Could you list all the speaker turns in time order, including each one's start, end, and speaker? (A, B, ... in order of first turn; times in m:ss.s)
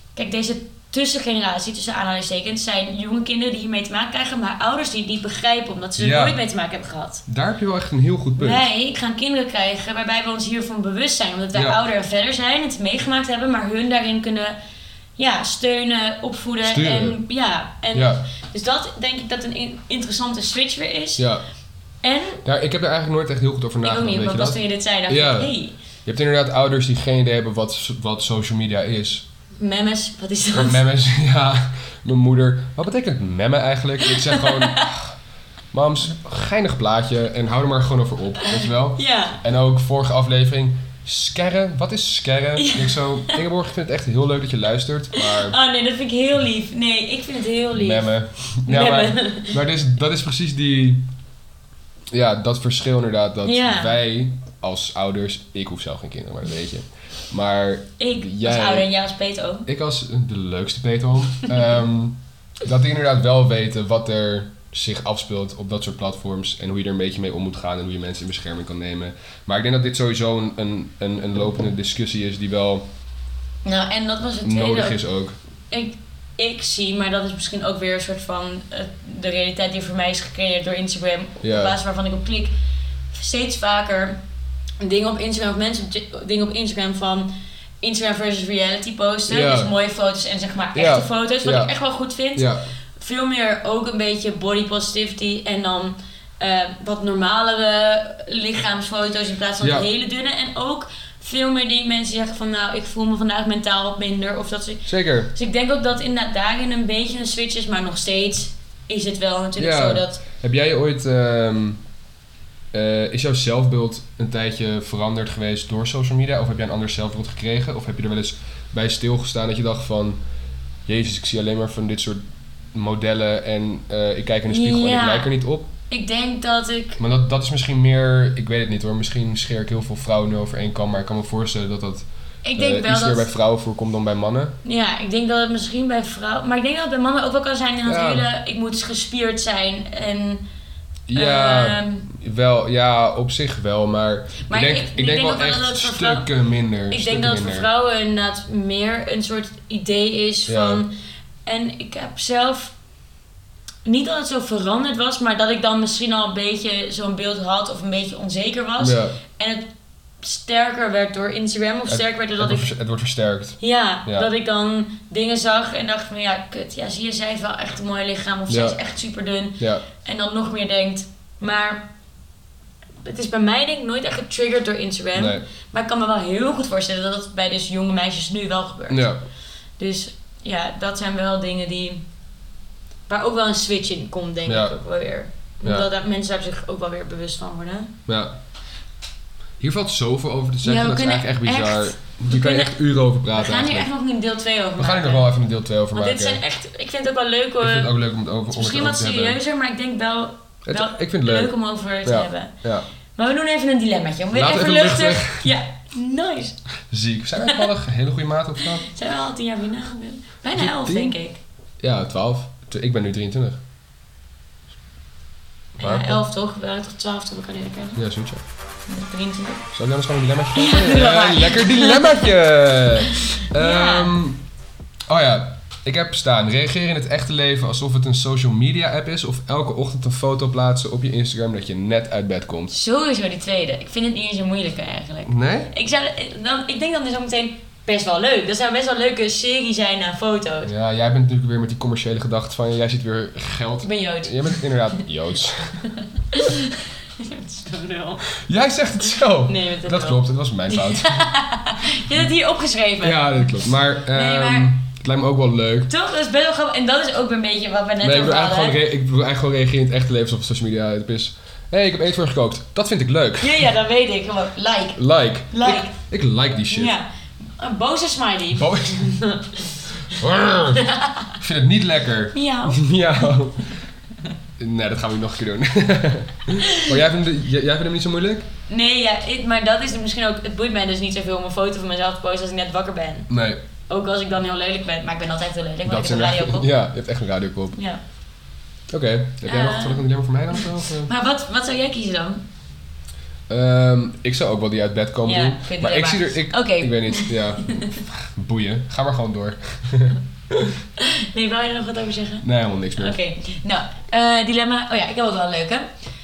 0:00.2-0:07.2 A
0:06.0-0:06.4 B
0:07.3-0:08.7 B
0:08.4-0:14.6 A
0:11.5-0:11.8 B
0:15.2-0:21.2 A
0:16.6-0:17.2 B
0:17.9-0:18.2 B
0:21.2-0:21.4 B
0:22.0-0:22.4 A
0:22.4-0:25.5 B
0:23.8-0:25.8 A
0:26.0-0:29.2 B
0:29.6-0:30.8 A
0:30.5-0:35.1 B
0:34.1-0:34.9 A
0:35.7-0:45.6 B
0:38.4-0:39.4 A
0:42.6-0:43.4 A
0:45.1-0:48.1 A
0:47.7-0:51.1 B
0:48.6-0:49.6 A
0:52.1-0:58.9 B
0:53.4-0:54.0 A
0:58.0-0:59.7 A
0:59.7-1:12.9 B
1:13.6-1:15.0 A
1:14.4-1:15.4 B
1:15.7-1:22.5 A
1:21.4-1:21.8 B
1:23.1-1:24.2 A
1:24.8-1:50.2 A
1:29.3-1:29.7 B
1:30.7-1:31.7 B
1:32.4-1:32.6 B
1:39.6-1:39.9 B
1:44.9-1:45.3 B
1:49.6-1:51.8 B
1:52.7-2:00.2 B
2:00.8-2:02.2 B
2:02.7-2:05.7 B
2:04.5-2:05.3 A
2:05.9-2:07.0 A
2:07.0-2:14.6 B
2:12.4-2:13.3 A
2:14.6-2:20.4 A
2:17.8-2:18.2 B
2:21.1-2:27.7 B
2:21.1-2:22.1 A
2:24.5-2:26.3 A
2:26.9-2:30.9 A
2:30.5-2:30.8 B
2:31.4-2:32.7 A
2:33.8-2:39.7 A
2:38.8-2:39.2 B
2:40.2-2:42.7 A
2:41.9-2:44.3 B
2:43.6-2:51.9 A
2:48.5-2:48.8 B
2:49.6-2:49.8 B
2:53.0-2:59.1 A
2:55.1-2:55.4 B
2:58.9-2:59.2 B
2:59.8-3:02.0 A
3:03.1-3:07.9 A
3:04.4-3:04.8 B
3:08.1-3:08.4 B
3:09.6-3:13.9 B
3:10.6-3:12.7 A
3:13.3-3:15.3 A
3:14.8-3:16.4 B
3:15.9-3:17.9 A
3:17.6-3:19.4 B
3:18.5-3:22.5 A
3:20.6-3:21.5 B
3:22.0-3:22.9 B
3:23.2-3:26.6 A
3:24.3-3:25.5 B
3:26.9-3:28.9 B
3:28.8-3:31.4 A
3:30.6-3:31.2 B
3:31.8-3:33.6 B
3:35.8-3:38.0 A
3:35.8-3:36.2 B
3:38.0-3:38.4 B
3:38.9-3:39.7 A
3:39.7-3:44.4 B
3:40.5-3:42.3 A
3:43.0-3:44.2 A
3:45.1-3:52.7 B
3:52.7-4:00.7 A
3:55.3-3:55.7 B
4:00.6-4:05.9 B
4:03.8-4:05.0 A
4:06.3-4:08.3 A
4:08.4-4:11.2 B
4:09.4-4:14.7 A
4:13.0-4:15.9 B
4:15.9-4:18.8 A
4:18.0-4:23.7 B
4:23.4-4:25.9 A
4:25.0-4:26.9 B
4:26.7-4:29.9 A
4:28.5-4:29.1 B
4:30.1-4:30.8 B
4:30.7-4:31.4 A
4:31.4-4:33.7 B
4:32.3-4:33.2 A
4:34.6-4:38.5 B
4:36.5-4:36.9 A
4:38.7-4:43.3 A
4:43.3-4:43.6 B
4:43.9-4:46.7 A
4:45.8-4:47.8 B
4:47.7-4:48.0 A
4:48.9-4:51.1 B
4:49.4-4:52.4 A
4:53.5-5:00.7 B
4:55.2-4:58.0 A
5:01.0-5:05.8 A
5:02.4-5:03.2 B